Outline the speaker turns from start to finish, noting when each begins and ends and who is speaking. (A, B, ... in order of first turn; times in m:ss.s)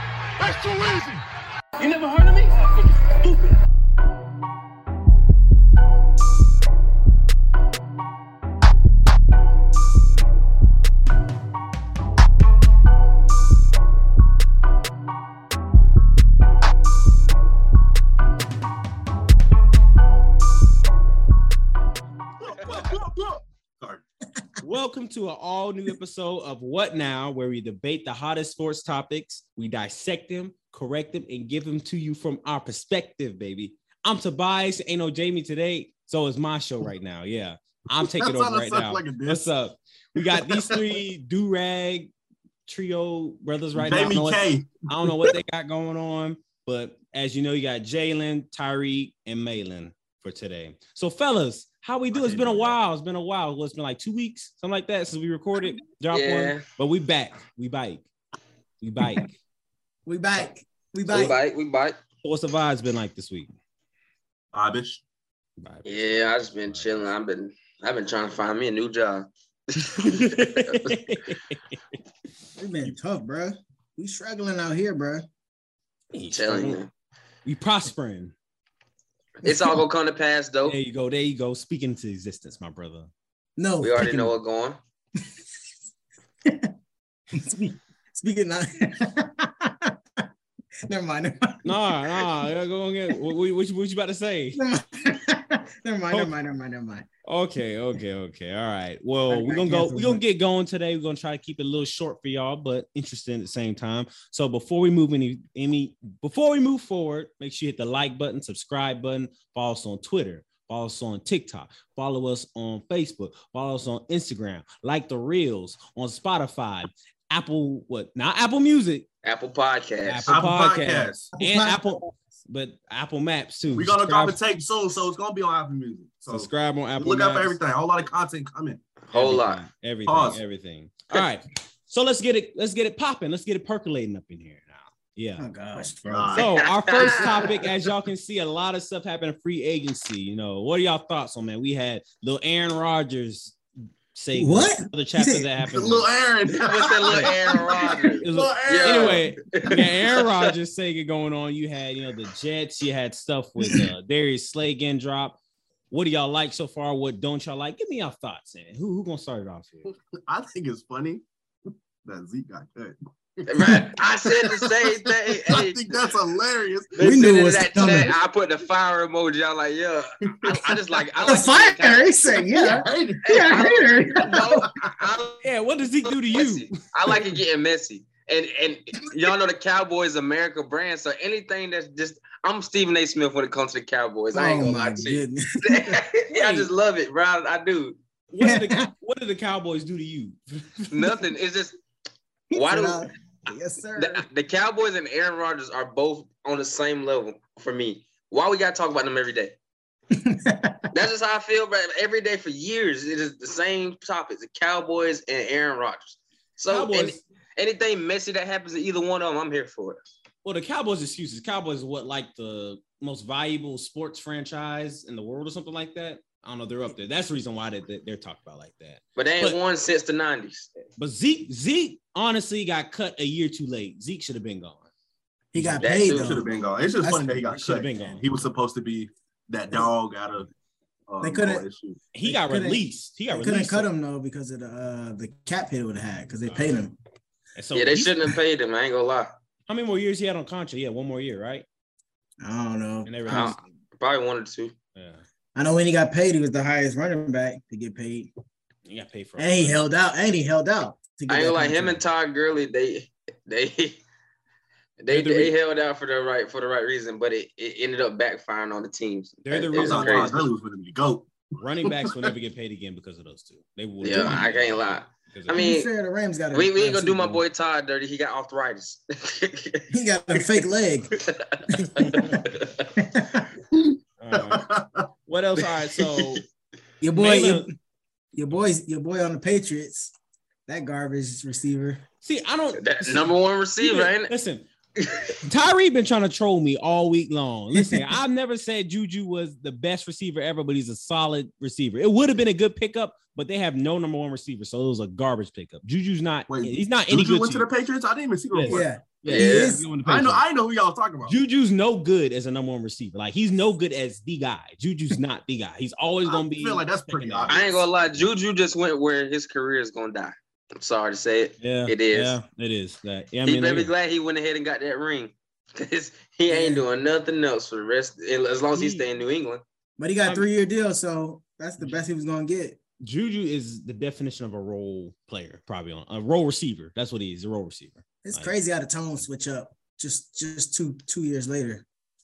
0:00.4-0:01.2 A
0:01.8-0:03.2 A
0:22.4-0:24.0 B
0:24.6-0:42.1 C
0:38.0-0:39.5 B
0:40.2-0:40.8 B
0:42.7-0:58.1 C
0:43.8-0:44.7 B
0:52.1-0:52.8 B
0:56.1-0:56.6 D
0:58.8-0:59.4 C
1:00.1-1:01.4 E
1:01.1-1:02.0 D
1:02.2-1:03.5 C
1:04.5-1:05.0 B
1:05.6-1:05.9 C
1:05.9-1:11.1 D
1:06.7-1:07.0 C
1:09.8-1:11.7 C
1:12.6-1:15.2 E
1:16.1-1:16.8 C
1:16.3-1:16.9 D
1:17.4-1:18.4 C
1:19.4-1:20.8 D
1:20.6-1:23.1 C
1:23.6-1:24.3 E
1:23.8-1:24.8 D
1:26.5-1:26.7 E
1:27.3-1:30.2 E
1:30.9-1:32.0 E
1:31.6-1:34.6 C
1:34.6-1:37.1 E
1:37.3-1:59.1 C
1:39.3-1:40.2 E
1:59.2-2:00.4 D
2:00.0-2:04.4 C
2:00.3-2:01.3 B
2:01.4-2:02.0 E
2:03.7-2:08.8 B
2:06.3-2:07.6 C
2:09.1-2:09.6 D
2:09.1-2:15.5 C
2:10.1-2:10.4 B
2:15.4-2:16.4 E
2:16.1-2:16.6 B
2:16.3-2:23.6 C
2:17.0-2:17.5 D
2:24.1-2:26.1 C
2:24.4-2:25.5 E
2:25.6-2:29.2 B
2:26.6-2:30.4 D
2:28.2-2:35.4 C
2:35.9-2:39.9 C
2:39.9-2:41.2 B
2:42.0-2:47.1 B
2:43.5-2:45.8 D
2:47.0-2:55.4 D
2:47.0-2:48.1 E
2:50.4-2:50.7 B
2:51.2-2:54.7 E
2:52.6-2:53.5 B
2:55.4-2:56.8 C
2:56.1-3:08.0 D
3:04.3-3:06.0 E
3:06.3-3:06.7 C
3:08.3-3:10.9 C
3:08.4-3:08.9 E
3:10.9-3:11.8 D
3:12.5-3:14.2 E
3:12.5-3:13.1 D
3:14.0-3:19.6 D
3:20.1-3:20.9 E
3:20.9-3:30.0 D
3:26.7-3:27.2 C
3:30.4-3:39.6 C
3:39.2-3:40.7 D
3:41.0-3:44.9 C
3:45.5-3:46.5 E
3:45.6-3:45.9 C
3:45.8-3:46.4 D
3:46.1-3:50.5 B
3:47.0-3:47.5 E
3:47.5-3:48.2 C
3:51.1-3:52.0 B
3:51.2-3:51.6 E
3:52.1-3:53.9 C
3:52.2-3:57.0 E
3:57.6-3:58.2 C
3:57.7-3:59.3 D
3:59.7-4:01.6 C
4:02.4-4:03.6 E
4:03.0-4:03.6 C
4:03.3-4:04.8 D
4:05.0-4:05.2 C
4:05.6-4:08.3 E
4:08.9-4:09.8 C
4:09.4-4:12.0 E
4:11.3-4:14.0 D
4:15.0-4:20.4 D
4:15.1-4:15.5 C
4:19.4-4:20.5 C
4:19.7-4:21.3 B
4:21.6-4:25.7 C
4:21.8-4:22.3 B
4:24.0-4:25.9 D
4:25.5-4:27.4 E
4:26.5-4:29.8 D
4:29.9-4:31.1 E
4:31.2-4:32.9 D
4:31.7-4:32.4 E
4:32.1-4:32.3 C
4:33.0-4:33.5 E
4:34.2-4:34.7 C
4:34.3-4:35.1 B
4:35.3-4:36.4 C
4:37.0-4:37.7 E
4:37.2-4:37.7 C
4:38.3-4:40.1 E
4:40.7-4:42.0 E
4:42.2-4:44.6 C
4:42.8-4:44.3 D
4:45.0-4:45.4 D
4:45.4-4:57.7 C
4:47.7-4:48.2 E
4:56.5-4:58.9 B
4:58.5-5:00.4 C
4:58.7-4:59.9 E
4:59.2-4:59.8 D
5:00.0-5:01.4 B
5:01.2-5:07.6 C
5:06.3-5:07.9 B
5:07.5-5:12.4 D
5:11.6-5:13.9 C
5:13.5-5:19.6 D
5:16.5-5:16.8 E
5:18.7-5:19.1 C
5:20.0-5:22.8 E
5:23.0-5:28.5 C
5:28.2-5:31.8 E